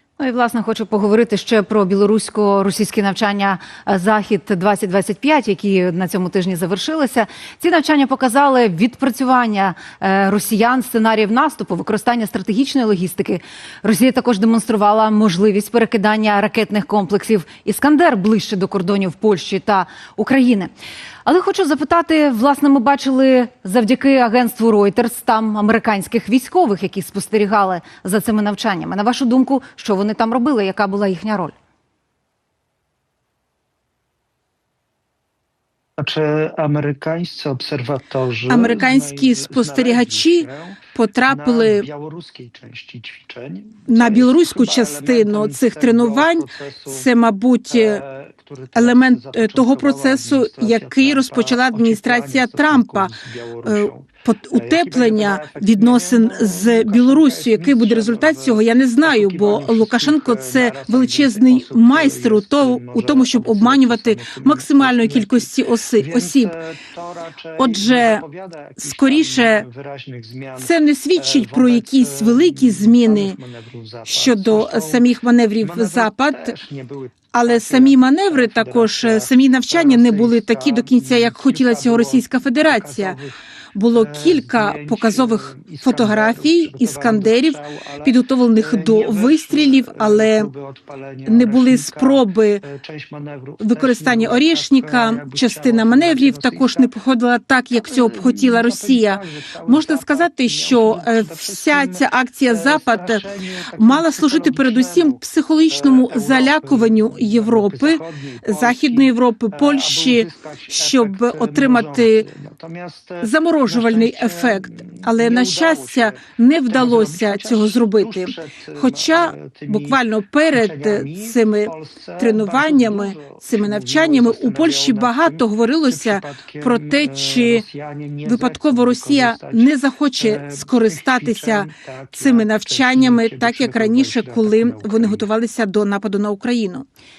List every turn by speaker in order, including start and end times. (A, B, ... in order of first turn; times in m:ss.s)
0:00.2-0:20.7 A
0:21.3-0:31.5 A
0:36.0-0:47.0 B
0:38.5-0:41.9 C
0:43.9-0:48.0 C
0:47.7-1:05.5 B
0:48.7-0:53.1 C
0:53.7-1:06.5 C
1:06.0-1:15.0 B
1:07.6-1:08.2 C
1:08.8-1:09.6 C
1:10.6-1:13.4 C
1:14.0-1:16.5 C
1:15.6-1:23.4 B
1:17.3-1:23.2 C
1:23.7-1:30.5 C
1:23.9-1:36.9 B
1:31.3-1:32.6 C
1:33.6-1:43.2 C
1:37.8-1:45.2 B
1:43.8-1:52.3 C
1:45.7-2:00.0 B
1:53.2-2:07.6 C
2:00.5-2:09.7 B
2:08.2-2:16.8 C
2:10.2-2:15.3 B